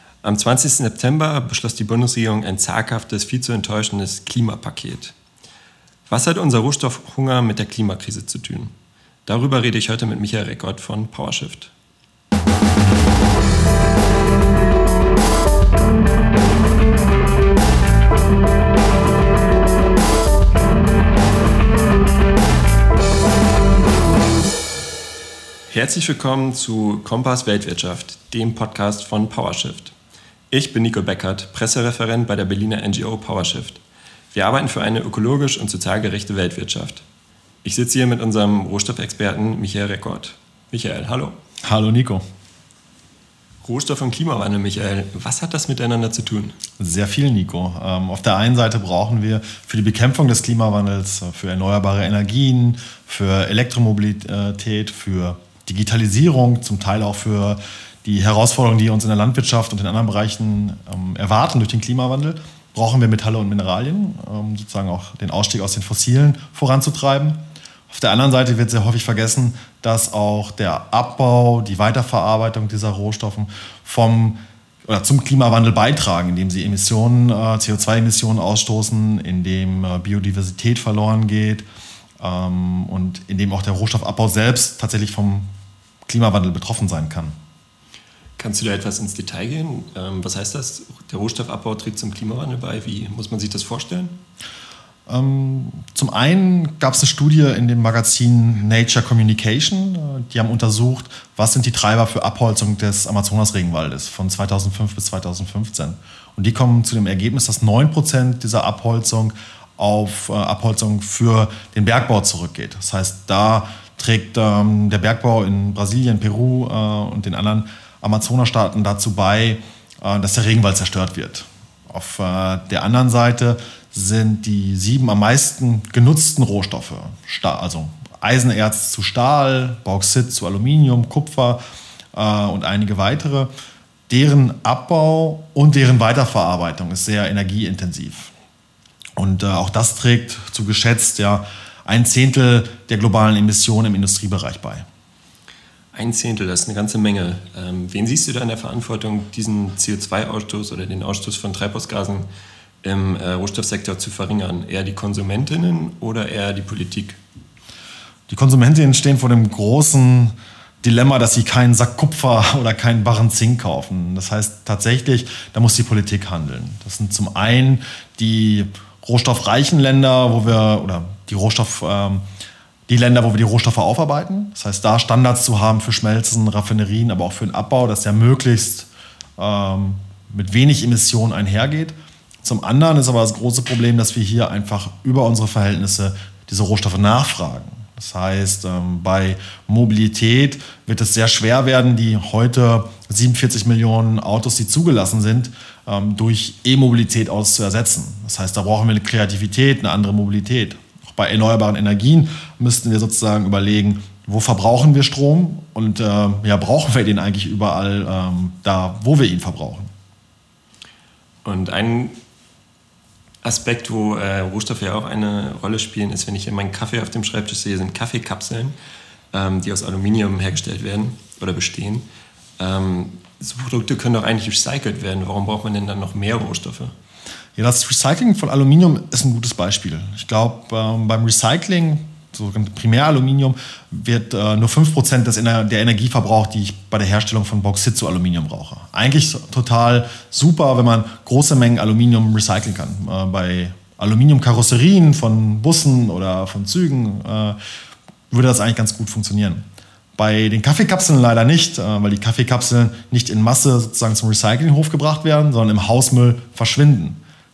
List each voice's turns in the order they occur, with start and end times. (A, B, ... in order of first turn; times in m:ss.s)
0:00.2-0:05.1 A
0:06.1-0:08.7 A
0:09.2-0:11.7 A
0:25.7-0:29.9 A
0:30.5-0:37.0 A
0:37.6-0:41.4 A
0:41.6-0:42.2 B
0:43.6-0:46.6 A
0:46.8-1:07.4 B
1:07.9-1:21.6 B
1:22.2-1:25.5 B
1:26.1-1:27.3 B
1:28.4-1:34.1 A
1:35.1-2:11.6 B
2:12.1-2:13.5 B
2:14.1-2:18.3 B
2:19.2-2:24.8 B
2:25.9-2:32.2 A
2:32.8-2:37.2 A
2:38.3-2:52.2 B
2:52.9-3:29.9 B
3:31.4-3:32.1 A
3:33.4-3:38.7 A
3:39.3-3:42.0 A
3:42.6-3:46.9 A
3:47.6-4:07.6 B
4:08.3-4:09.6 B
4:10.2-4:17.2 B